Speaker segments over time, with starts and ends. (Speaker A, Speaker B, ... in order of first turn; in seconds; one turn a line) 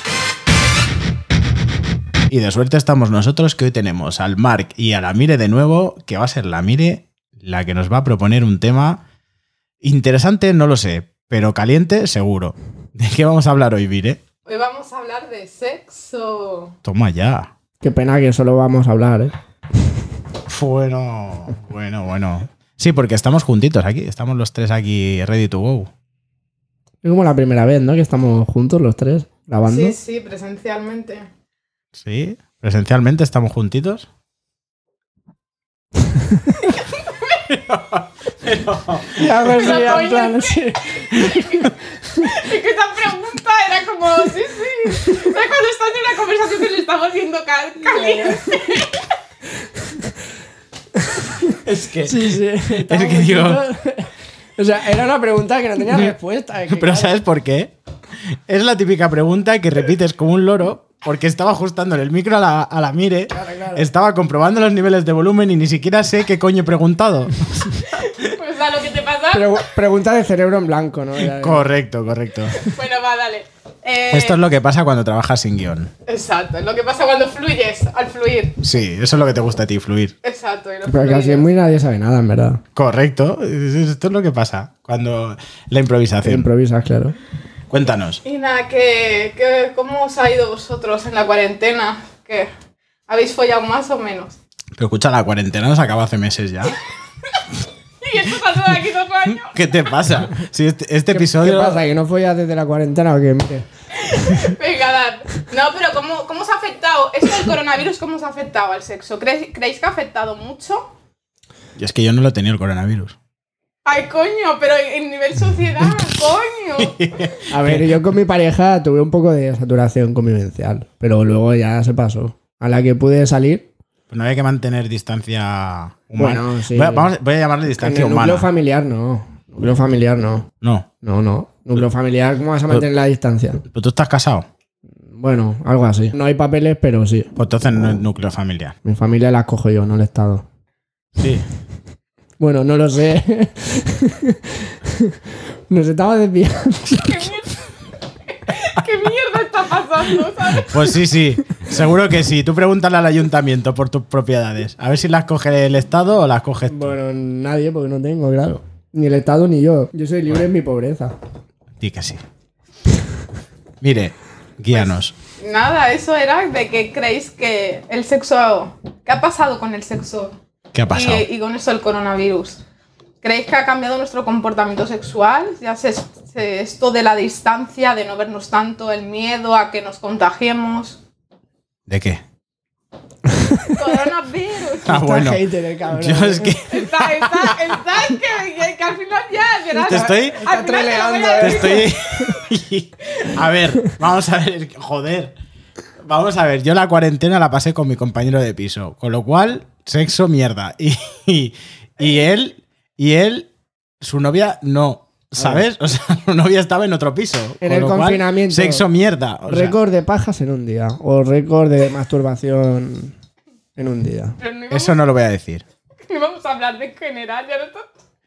Speaker A: 2.3-9.0
Speaker A: 9.8-14.2
Speaker B: 14.5-16.8
Speaker A: 16.8-17.5
Speaker C: 17.8-19.3
Speaker A: 20.5-25.9
Speaker C: 27.0-30.0
Speaker B: 29.6-31.3
Speaker A: 32.0-34.1
Speaker A: 37.5-39.9
Speaker C: 39.1-42.4
Speaker B: 39.5-49.1
Speaker A: 41.2-41.7
Speaker C: 47.9-48.6
Speaker C: 49.6-50.1
Speaker C: 51.0-57.2
Speaker A: 51.5-53.6
Speaker A: 56.7-57.7
Speaker A: 58.5-67.8
Speaker C: 63.3-63.9
Speaker B: 67.8-69.6
Speaker C: 69.3-71.7
Speaker A: 71.2-72.7
Speaker B: 72.5-74.4
Speaker A: 74.1-75.9
Speaker B: 76.1-78.6
Speaker A: 78.6-80.2
Speaker B: 80.2-81.5
Speaker C: 80.9-82.6
Speaker A: 82.8-86.5
Speaker C: 86.2-87.2
Speaker A: 87.7-88.2
Speaker B: 88.2-92.5
Speaker B: 93.1-94.4
Speaker A: 94.8-96.8
Speaker B: 98.0-100.0
Speaker A: 99.3-101.8
Speaker C: 101.1-103.7
Speaker B: 104.0-110.9
Speaker A: 111.8-113.2
Speaker B: 113.8-117.1
Speaker A: 116.8-117.9
Speaker C: 117.5-123.7
Speaker A: 124.1-128.5
Speaker C: 126.2-127.1
Speaker C: 127.8-130.5
Speaker A: 130.6-130.9
Speaker C: 131.0-133.6
Speaker A: 133.7-134.5
Speaker C: 135.1-137.3
Speaker A: 137.4-138.8
Speaker C: 138.8-140.4
Speaker A: 141.2-141.4
Speaker C: 142.4-147.4
Speaker B: 146.9-151.0
Speaker A: 150.6-157.0
Speaker C: 156.7-161.1
Speaker A: 161.8-162.2
Speaker A: 163.8-165.1
Speaker B: 164.7-170.4
Speaker A: 170.7-171.2
Speaker B: 170.9-172.6
Speaker B: 173.2-181.0
Speaker A: 181.9-182.2
Speaker C: 183.3-184.0
Speaker B: 183.7-185.0
Speaker C: 184.8-186.6
Speaker A: 184.9-187.8
Speaker B: 186.7-192.4
Speaker C: 189.8-192.3
Speaker A: 189.9-190.5
Speaker A: 191.3-195.3
Speaker A: 196.1-203.5
Speaker A: 204.0-209.8
Speaker C: 205.4-205.6
Speaker C: 207.6-208.9
Speaker C: 209.5-213.2
Speaker C: 213.8-214.4
Speaker B: 214.4-215.0
Speaker A: 214.7-215.7
Speaker B: 216.1-217.9